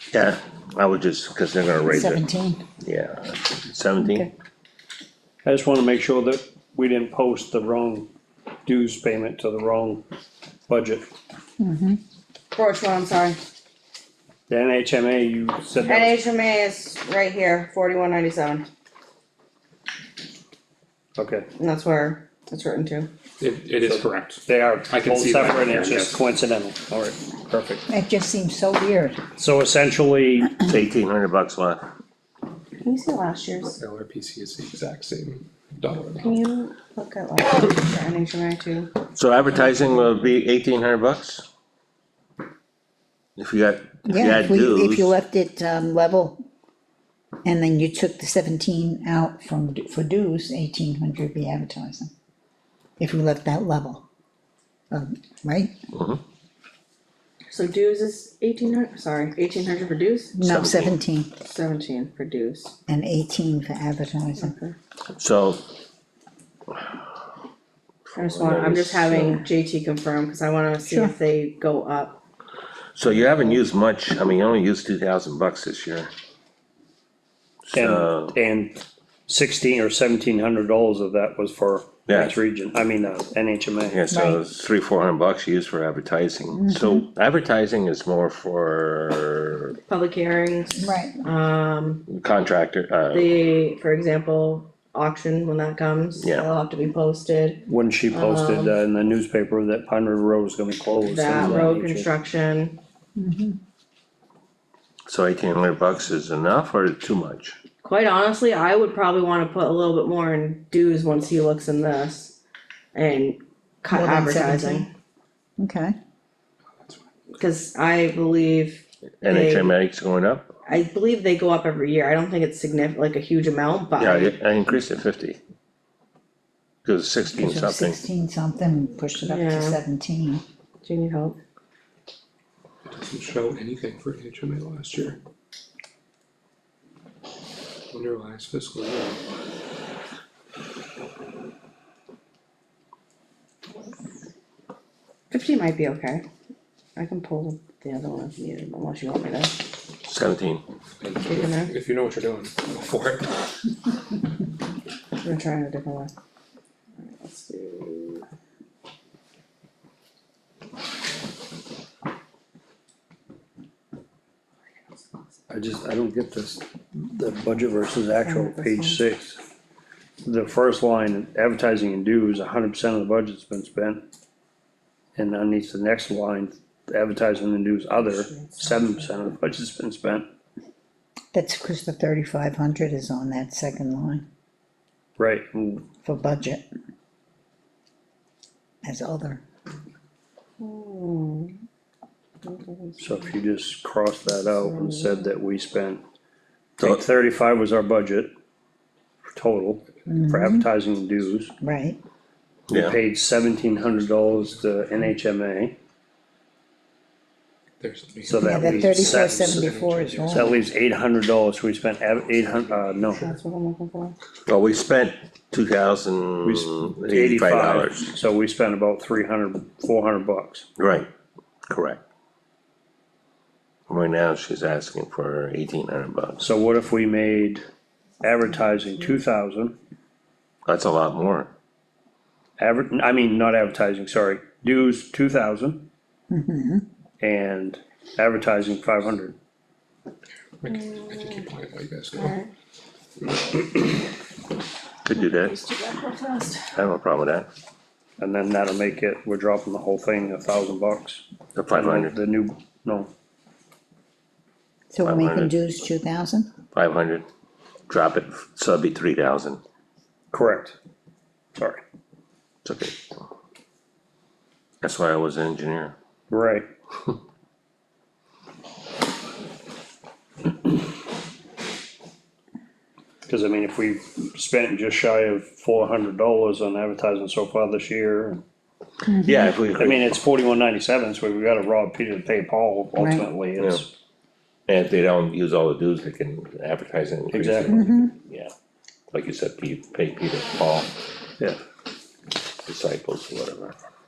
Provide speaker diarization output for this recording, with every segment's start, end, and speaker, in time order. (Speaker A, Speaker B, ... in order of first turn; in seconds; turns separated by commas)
Speaker A: 0.1-2.2, Speaker B: 1.9-2.6, Speaker A: 2.8-4.3, Speaker C: 5.4-8.1, Speaker C: 8.7-10.0, Speaker C: 10.7-11.1, Speaker B: 11.6-12.0, Speaker D: 12.5-13.4, Speaker C: 14.5-16.2, Speaker D: 15.8-18.7, Speaker C: 21.2-21.5, Speaker D: 21.6-23.1, Speaker E: 23.4-26.2, Speaker C: 23.8-27.9, Speaker B: 27.9-29.2, Speaker C: 29.4-30.5, Speaker A: 30.7-31.9, Speaker D: 32.8-33.8, Speaker E: 33.7-36.4, Speaker D: 36.2-39.0, Speaker A: 39.1-41.4, Speaker A: 43.4-45.1, Speaker B: 44.1-46.4, Speaker B: 47.4-52.1, Speaker B: 53.0-54.0, Speaker B: 54.9-55.7, Speaker A: 55.9-56.2, Speaker D: 57.5-60.4, Speaker B: 60.3-61.3, Speaker A: 60.4-61.0, Speaker D: 61.4-62.8, Speaker B: 62.9-64.5, Speaker D: 64.4-64.8, Speaker A: 65.1-65.6, Speaker A: 68.1-69.4, Speaker D: 68.2-72.2, Speaker B: 70.8-71.1, Speaker A: 73.0-76.1, Speaker A: 77.7-78.4, Speaker C: 77.7-84.0, Speaker A: 82.1-82.3, Speaker A: 83.9-89.8, Speaker B: 84.1-84.4, Speaker B: 86.5-87.1, Speaker D: 89.9-92.0, Speaker B: 90.8-91.2, Speaker A: 92.1-93.3, Speaker D: 93.1-98.7, Speaker A: 96.2-96.5, Speaker C: 97.7-102.1, Speaker D: 101.0-102.8, Speaker B: 103.2-103.6, Speaker A: 105.1-107.6, Speaker D: 107.8-112.4, Speaker D: 112.9-114.9, Speaker B: 113.9-114.9, Speaker B: 115.6-116.0, Speaker E: 116.8-117.3, Speaker D: 117.4-119.8, Speaker A: 119.2-120.5, Speaker D: 120.7-124.4, Speaker A: 124.0-125.4, Speaker A: 126.8-128.0, Speaker B: 127.3-130.4, Speaker D: 129.2-129.8, Speaker D: 130.8-131.4, Speaker E: 132.9-135.2, Speaker E: 137.9-139.2, Speaker D: 145.3-146.2, Speaker D: 147.0-149.7, Speaker A: 150.1-150.6, Speaker E: 151.0-153.4, Speaker D: 151.2-151.7, Speaker D: 155.2-156.1, Speaker D: 157.0-158.2, Speaker C: 165.5-169.4, Speaker D: 168.2-169.0, Speaker C: 170.2-174.0, Speaker C: 175.2-180.3, Speaker B: 181.3-184.2, Speaker C: 185.2-185.8, Speaker B: 186.0-186.7, Speaker B: 188.8-189.4, Speaker D: 190.6-191.5, Speaker D: 192.4-193.2, Speaker C: 193.0-196.0, Speaker D: 194.6-195.2, Speaker C: 196.8-198.3, Speaker C: 199.3-201.5, Speaker B: 200.1-200.7, Speaker B: 201.6-202.0, Speaker A: 202.7-203.0, Speaker C: 202.7-205.8, Speaker E: 204.0-204.7, Speaker E: 207.8-210.6, Speaker C: 208.3-209.7, Speaker B: 208.4-210.5, Speaker C: 210.3-213.3, Speaker D: 213.2-214.2, Speaker A: 214.5-218.1, Speaker C: 216.4-220.7, Speaker A: 220.8-221.1, Speaker A: 221.7-222.0, Speaker A: 223.9-226.4, Speaker C: 226.4-227.6, Speaker C: 228.2-229.7, Speaker A: 230.7-231.5, Speaker C: 232.6-235.8, Speaker B: 236.3-236.8, Speaker C: 237.2-239.3, Speaker E: 240.6-242.4, Speaker D: 242.2-242.5, Speaker E: 243.2-244.1, Speaker A: 245.1-245.6, Speaker D: 245.3-246.8, Speaker A: 246.8-247.5, Speaker C: 248.2-253.1, Speaker A: 251.6-252.2, Speaker B: 254.9-256.5, Speaker A: 255.0-255.6, Speaker A: 256.7-257.3, Speaker A: 257.9-259.6, Speaker C: 260.3-260.8, Speaker C: 261.6-261.8, Speaker A: 262.6-263.0, Speaker A: 264.8-265.9, Speaker C: 266.3-266.6, Speaker C: 273.3-278.4, Speaker B: 279.1-279.4, Speaker A: 279.1-280.2, Speaker C: 279.8-283.9, Speaker A: 284.7-288.5, Speaker C: 287.3-287.9, Speaker B: 287.7-288.1, Speaker A: 289.1-290.9, Speaker A: 292.7-293.8